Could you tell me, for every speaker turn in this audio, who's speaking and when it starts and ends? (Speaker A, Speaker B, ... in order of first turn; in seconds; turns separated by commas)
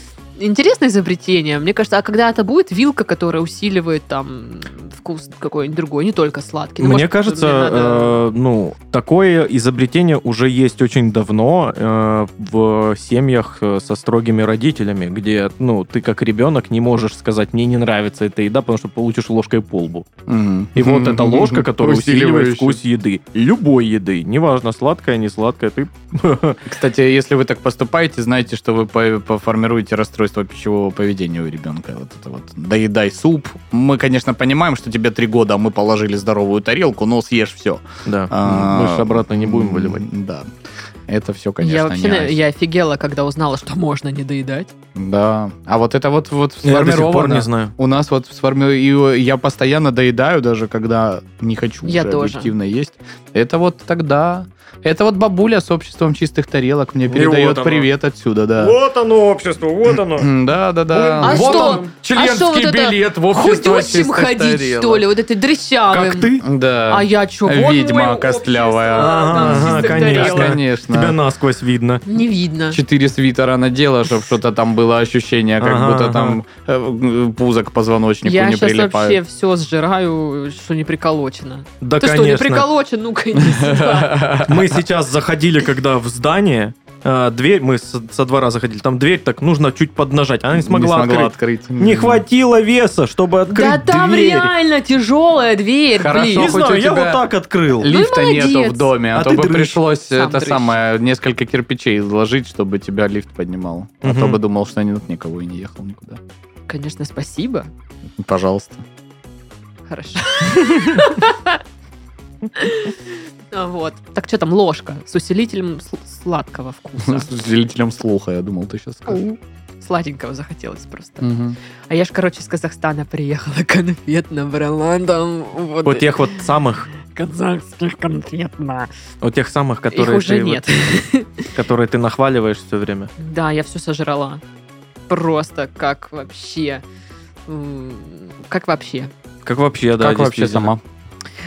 Speaker A: 0.4-8.2, Speaker B: 6.8-20.1, Speaker C: 20.3-22.8, Speaker B: 20.7-26.6, Speaker C: 26.6-40.5, Speaker B: 38.0-40.0, Speaker C: 41.1-42.4, Speaker A: 41.6-44.7, Speaker C: 45.0-58.8, Speaker B: 46.6-47.7, Speaker A: 51.8-52.5, Speaker B: 57.0-57.9, Speaker B: 58.6-60.3, Speaker C: 59.9-65.0, Speaker B: 60.9-61.9, Speaker A: 61.2-66.3, Speaker B: 65.9-66.4, Speaker C: 66.4-71.2, Speaker A: 66.9-70.6, Speaker B: 69.0-72.0, Speaker A: 72.0-72.8, Speaker C: 72.7-79.2, Speaker B: 75.6-76.4, Speaker A: 78.2-84.4, Speaker B: 81.8-82.7, Speaker C: 83.4-84.8, Speaker B: 84.4-94.5, Speaker C: 90.5-92.2, Speaker A: 93.5-96.5, Speaker C: 95.9-106.2, Speaker B: 96.3-98.0, Speaker A: 97.8-99.0, Speaker B: 99.1-99.8, Speaker A: 100.1-100.8, Speaker B: 104.0-104.4, Speaker A: 106.7-107.7, Speaker C: 108.2-108.8, Speaker A: 109.9-111.6, Speaker A: 112.5-117.3, Speaker C: 117.0-119.2, Speaker A: 119.1-121.3, Speaker C: 121.2-121.6, Speaker A: 121.9-126.5, Speaker B: 125.8-126.9, Speaker A: 127.0-128.9, Speaker B: 129.2-130.6, Speaker A: 129.9-131.5, Speaker B: 131.5-133.1, Speaker A: 133.2-134.4, Speaker A: 135.1-136.8, Speaker A: 137.5-139.1, Speaker B: 139.4-140.7, Speaker C: 140.0-140.8